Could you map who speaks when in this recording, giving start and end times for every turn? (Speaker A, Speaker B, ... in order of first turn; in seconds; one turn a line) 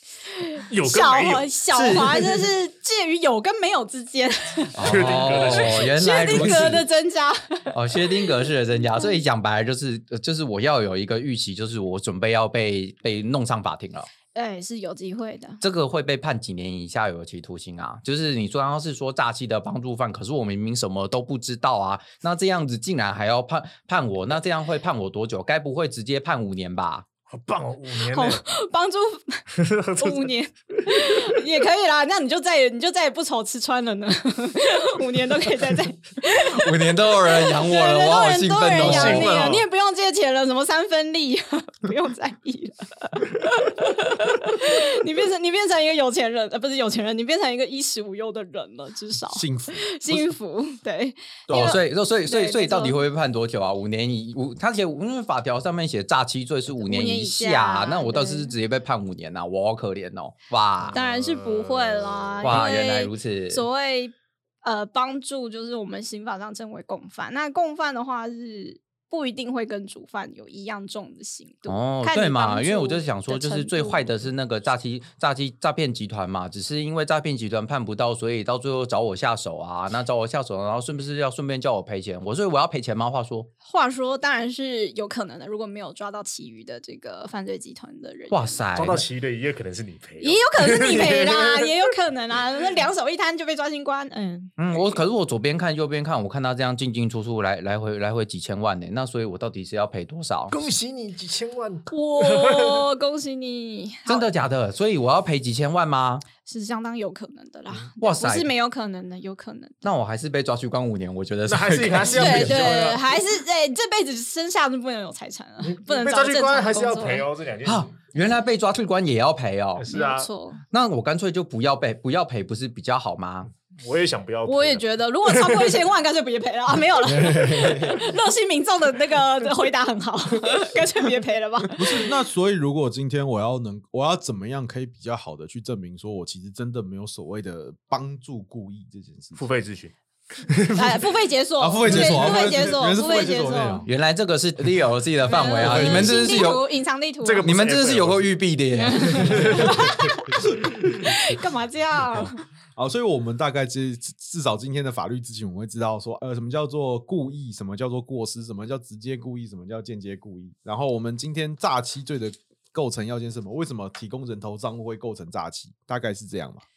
Speaker A: 0.4-7.7
Speaker B: 0.7-1.5
Speaker C: 1.7-2.4
Speaker C: 4.8-6.8
Speaker B: 4.8-5.9
Speaker C: 7.7-14.1
Speaker A: 8.9-9.2
Speaker A: 14.3-15.6
Speaker C: 15.6-27.1
Speaker B: 27.3-28.4
Speaker A: 28.1-29.4
Speaker B: 29.5-30.3
Speaker A: 30.0-53.0
Speaker C: 36.5-39.6
Speaker B: 38.8-39.6
Speaker D: 49.3-50.3
Speaker D: 51.5-51.8
Speaker C: 51.5-61.0
Speaker A: 56.8-58.5
Speaker A: 60.9-74.3
Speaker B: 60.9-62.5
Speaker C: 62.4-63.6
Speaker C: 71.7-83.5
Speaker A: 83.6-88.6
Speaker C: 88.3-89.0
Speaker B: 88.7-91.8
Speaker A: 90.2-95.0
Speaker C: 94.6-100.7
Speaker B: 100.5-102.8
Speaker A: 101.9-104.3
Speaker C: 104.1-106.2
Speaker A: 106.4-109.8
Speaker C: 108.0-108.5
Speaker C: 109.8-112.8
Speaker B: 111.4-113.1
Speaker A: 112.2-117.3
Speaker B: 115.6-117.9
Speaker C: 117.6-119.9
Speaker B: 119.8-120.3
Speaker A: 119.9-120.6
Speaker C: 120.7-123.5
Speaker B: 123.8-125.8
Speaker A: 124.5-132.1
Speaker D: 127.0-128.1
Speaker D: 131.8-139.4
Speaker B: 139.3-141.0
Speaker A: 140.7-143.9
Speaker D: 141.6-143.9
Speaker B: 142.0-142.4
Speaker C: 143.8-146.6
Speaker A: 145.3-147.5
Speaker B: 145.4-146.4
Speaker B: 147.2-148.3
Speaker C: 147.4-149.7
Speaker A: 148.8-150.5
Speaker B: 149.0-150.5
Speaker A: 151.0-152.4
Speaker D: 152.8-166.6